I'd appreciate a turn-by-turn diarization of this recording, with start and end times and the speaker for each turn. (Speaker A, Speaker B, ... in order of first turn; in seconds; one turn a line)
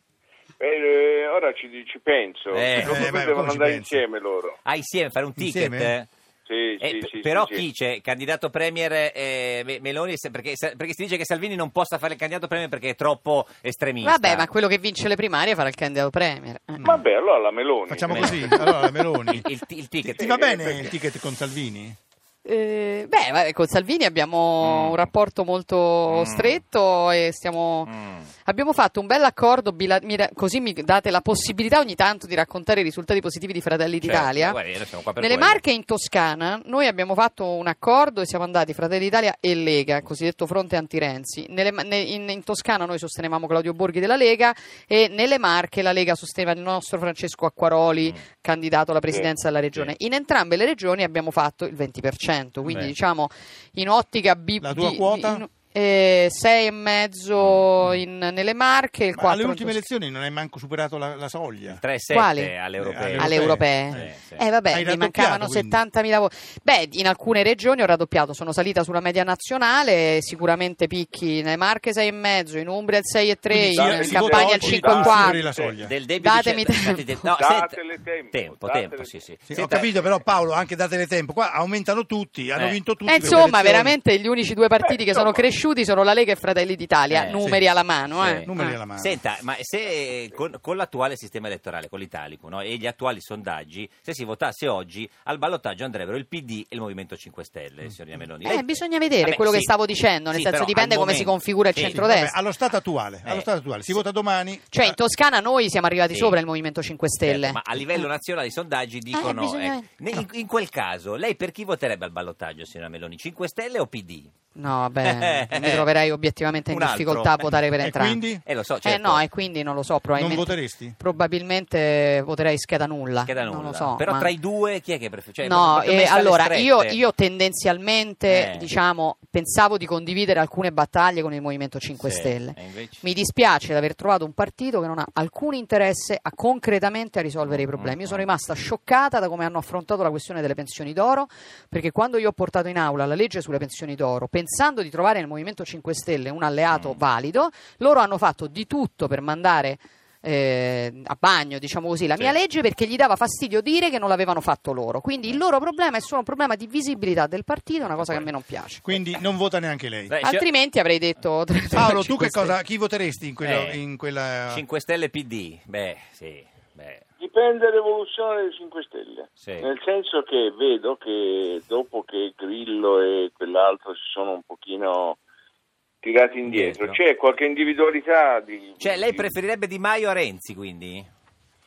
Speaker A: 0.6-4.6
Speaker B: 2.5-3.0
Speaker C: 2.8-4.0
Speaker B: 4.7-6.1
Speaker C: 5.4-5.9
Speaker A: 6.5-7.7
Speaker B: 6.8-14.5
Speaker D: 14.0-16.9
Speaker C: 16.8-17.0
Speaker A: 16.8-18.5
Speaker C: 17.9-19.5
Speaker B: 18.1-18.7
Speaker B: 19.2-21.0
Speaker C: 20.0-22.0
Speaker A: 20.2-20.8
Speaker D: 22.4-27.9
Speaker B: 24.6-25.1
Speaker B: 26.1-26.6
Speaker B: 27.9-28.3
Speaker D: 28.4-34.6
Speaker B: 34.0-35.6
Speaker D: 35.2-59.8
Speaker C: 54.6-55.5
Speaker B: 57.4-57.7
Speaker C: 59.1-61.8
Speaker B: 61.7-64.4
Speaker D: 62.1-62.5
Speaker C: 62.8-64.1
Speaker D: 63.2-75.5
Speaker C: 64.7-65.8
Speaker C: 73.5-75.9
Speaker A: 73.8-75.8
Speaker B: 75.8-80.2
Speaker D: 76.2-77.2
Speaker A: 77.4-79.2
Speaker C: 79.5-84.0
Speaker D: 83.1-88.8
Speaker A: 84.8-85.4
Speaker B: 87.1-87.4
Speaker C: 87.4-87.7
Speaker B: 88.2-99.7
Speaker C: 88.5-89.2
Speaker D: 98.4-102.4
Speaker B: 100.3-102.0
Speaker C: 101.8-105.0
Speaker B: 103.2-104.0
Speaker D: 104.7-108.1
Speaker B: 106.1-106.4
Speaker B: 107.2-114.3
Speaker D: 109.1-110.2
Speaker D: 114.5-118.2
Speaker B: 115.0-115.9
Speaker B: 116.7-117.5
Speaker C: 117.8-118.4
Speaker B: 118.5-119.2
Speaker D: 118.8-124.3
Speaker C: 120.2-121.0
Speaker B: 123.2-127.0
Speaker D: 125.4-158.9
Speaker B: 128.3-128.7
Speaker B: 132.0-133.0
Speaker B: 137.4-138.2
Speaker B: 146.7-147.0
Speaker B: 158.0-158.3
Speaker C: 158.8-160.2
Speaker B: 160.1-160.5
Speaker D: 160.2-162.5
Speaker C: 161.7-164.6
Speaker B: 163.4-163.8
Speaker B: 164.5-167.0
Speaker A: 167.2-175.2
Speaker B: 169.4-169.7
Speaker A: 176.0-179.3
Speaker B: 176.4-177.0
Speaker B: 178.8-181.1